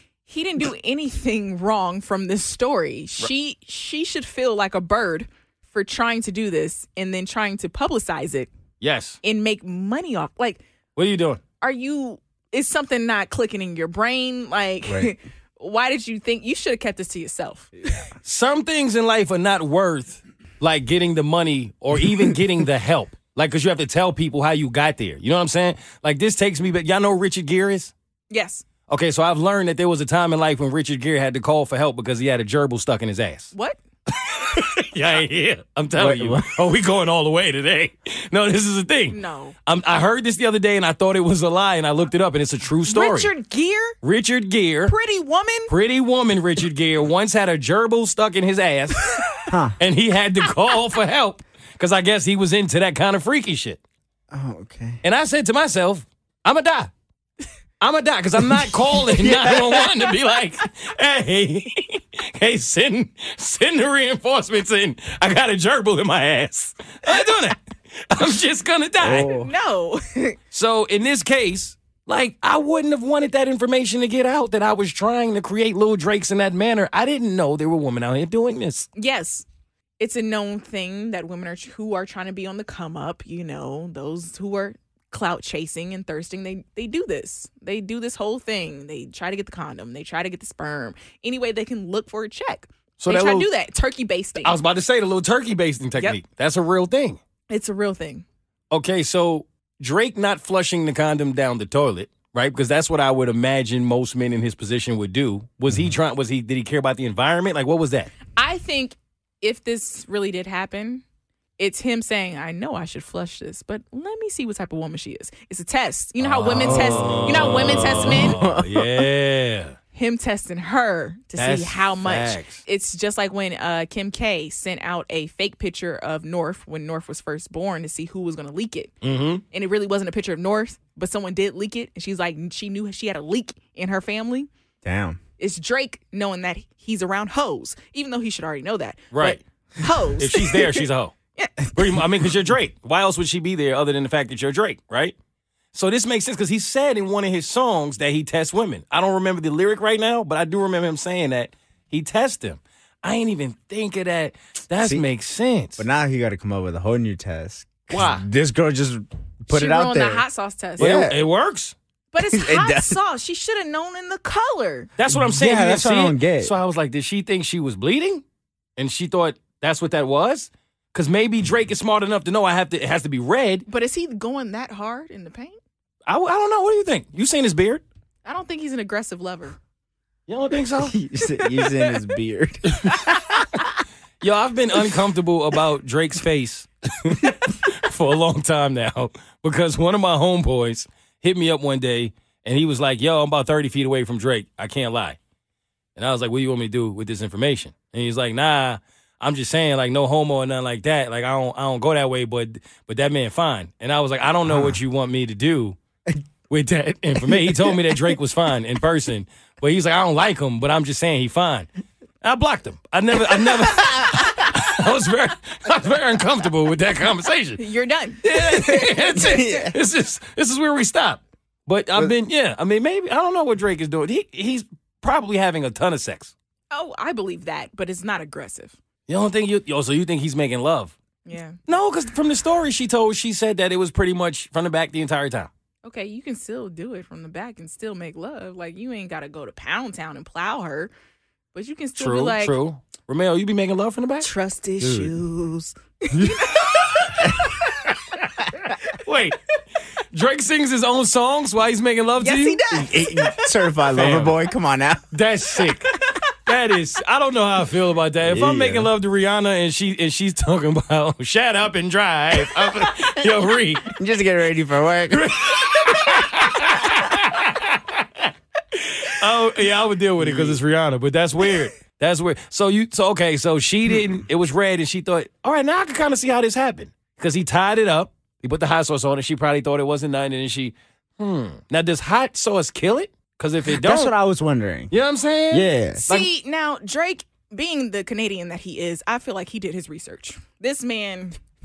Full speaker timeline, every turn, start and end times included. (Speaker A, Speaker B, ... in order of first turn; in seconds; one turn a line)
Speaker A: 0.3-8.5
Speaker B: 8.8-9.2
Speaker A: 9.2-10.6
Speaker B: 11.0-11.4
Speaker A: 11.6-17.9
Speaker C: 14.9-15.1
Speaker B: 18.2-27.9
Speaker A: 28.3-28.6
Speaker B: 28.9-33.5
Speaker A: 33.5-33.8
Speaker B: 34.3-43.3
Speaker C: 36.0-36.6
Speaker A: 39.1-39.5
Speaker A: 42.9-44.0
Speaker B: 44.0-45.0
Speaker A: 44.9-45.7
Speaker B: 45.7-53.8
Speaker C: 49.5-49.8
Speaker C: 54.3-55.0
Speaker B: 55.0-56.9
Speaker B: 57.8-69.3
Speaker C: 59.1-60.0
Speaker C: 69.0-69.5
Speaker A: 69.1-70.4
Speaker B: 70.5-78.9
Speaker A: 79.0-79.5
Speaker A: 80.0-94.6
Speaker B: 93.0-93.5
Speaker B: 94.4-97.2
Speaker A: 97.5-98.2
Speaker B: 98.7-108.1
Speaker A: 108.4-111.0
Speaker A: 111.6-118.4
Speaker B: 116.2-119.8
Speaker C: 117.8-118.8
Speaker A: 119.9-128.9
Speaker B: 121.4-122.6
Speaker B: 129.0-129.4
Speaker A: 129.5-134.5
Speaker C: 134.8-135.2
Speaker A: 135.4-141.7
Speaker B: 139.1-139.4
Speaker B: 140.2-141.1
Speaker B: 141.7-145.2
Speaker B: 145.7-155.9
Speaker C: 154.8-155.1
Speaker C: 155.8-160.2
Speaker B: 157.9-158.2
Speaker A: 159.5-161.0
Speaker C: 160.8-161.2
Speaker B: 160.8-161.8
Speaker A: 162.1-164.9
Speaker C: 162.2-163.0
Speaker B: 165.0-168.2
Speaker C: 165.1-166.6
Speaker B: 168.8-173.7
Speaker A: 173.7-175.6
Speaker B: 176.1-177.8
Speaker A: 178.2-179.6
Speaker B: 180.3-180.9
Speaker C: 180.8-183.6
Speaker A: 181.4-182.1
Speaker B: 184.2-195.2
Speaker B: 196.0-205.8
Speaker C: 204.5-204.8
Speaker B: 206.5-211.7
Speaker C: 207.2-208.2
Speaker B: 212.2-217.6
Speaker C: 213.6-213.9
Speaker A: 217.6-219.7
Speaker B: 218.2-226.3
Speaker C: 219.2-219.8
Speaker A: 226.7-228.8
Speaker B: 229.1-230.9
Speaker A: 231.2-231.6
Speaker B: 231.7-235.5
Speaker A: 235.8-240.9
Speaker A: 241.5-242.6
Speaker B: 242.0-244.3
Speaker A: 244.2-248.0
Speaker C: 244.8-245.1
Speaker B: 246.2-247.2
Speaker B: 248.2-249.6
Speaker B: 250.1-252.6
Speaker A: 252.2-253.5
Speaker C: 252.7-255.2
Speaker B: 253.9-254.4
Speaker B: 255.1-255.9
Speaker B: 256.5-263.9
Speaker C: 258.2-258.9
Speaker C: 263.9-265.6
Speaker B: 265.2-268.3
Speaker B: 268.9-284.1
Speaker C: 270.2-270.6
Speaker C: 283.7-284.9
Speaker B: 284.9-286.3
Speaker C: 285.5-286.1
Speaker A: 286.0-291.4